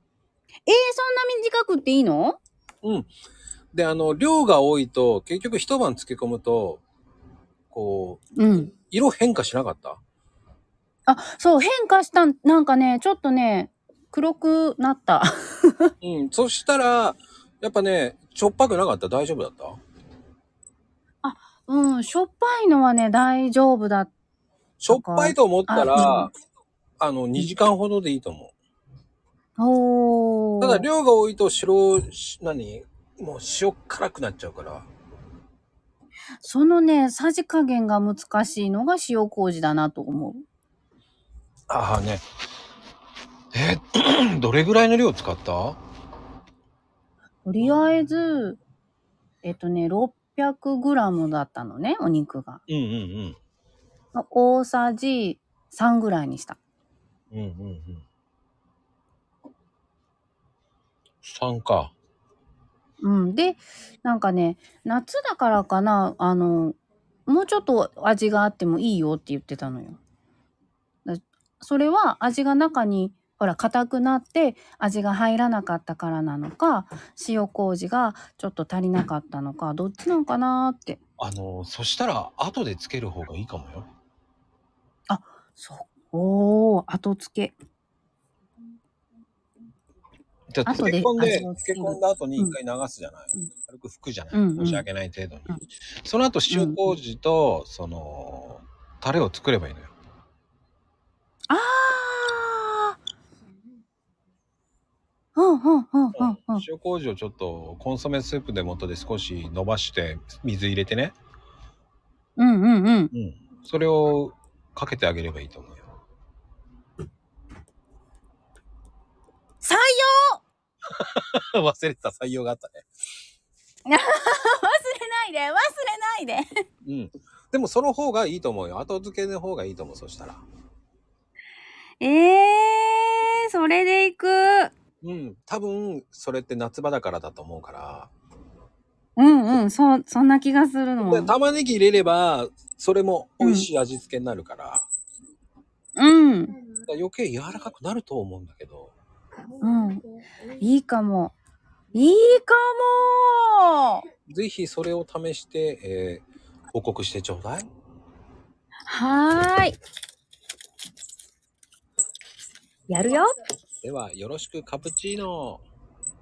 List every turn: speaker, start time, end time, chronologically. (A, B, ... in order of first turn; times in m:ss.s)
0:00.7-0:02.4 A
0:02.8-0:03.1 B
0:03.7-0:06.8 B
0:07.7-0:10.0 B
0:08.4-0:08.7 A
0:11.1-0:15.9 A
0:16.0-0:19.8 B
0:21.2-0:24.1 A
0:24.8-0:26.3 B
0:24.9-0:26.3 A
0:27.0-0:28.5 B
0:29.6-0:30.9 A
0:30.6-0:34.9 B
0:36.4-0:40.4 A
0:41.7-0:42.2 B
0:43.5-0:45.8 B
0:47.4-0:48.6 A
0:49.4-0:52.6 A
0:52.7-0:53.4 B
0:54.2-0:56.6 A
0:57.3-0:58.0 B
1:01.2-1:01.9 B
1:03.0-1:10.0 A
1:11.0-1:21.0 A
1:21.2-1:23.9 B
1:25.1-1:27.6 A
1:30.5-1:39.9 B
1:30.7-1:32.6 A
1:34.3-1:34.9 A
1:36.5-1:36.9 A
1:41.5-1:43.0 A
1:45.4-1:46.7 A
1:46.2-1:51.1 B
1:52.4-1:53.1 A
1:53.1-1:55.8 B
1:59.6-2:00.4 A
2:00.9-2:02.9 B
2:03.9-2:06.6 A
2:06.8-2:10.4 B
2:12.0-2:14.7 A
2:15.0-2:18.1 B
2:19.2-2:21.3 A
2:21.0-2:24.9 B
2:23.4-2:23.7 A
2:26.0-2:26.6 A
2:26.9-2:28.9 B
2:29.6-2:30.0 A
2:30.6-2:31.3 A
2:31.9-2:34.0 A
2:34.3-2:37.7 B
2:38.9-2:39.8 A
2:42.9-2:43.3 A
2:43.8-2:45.6 B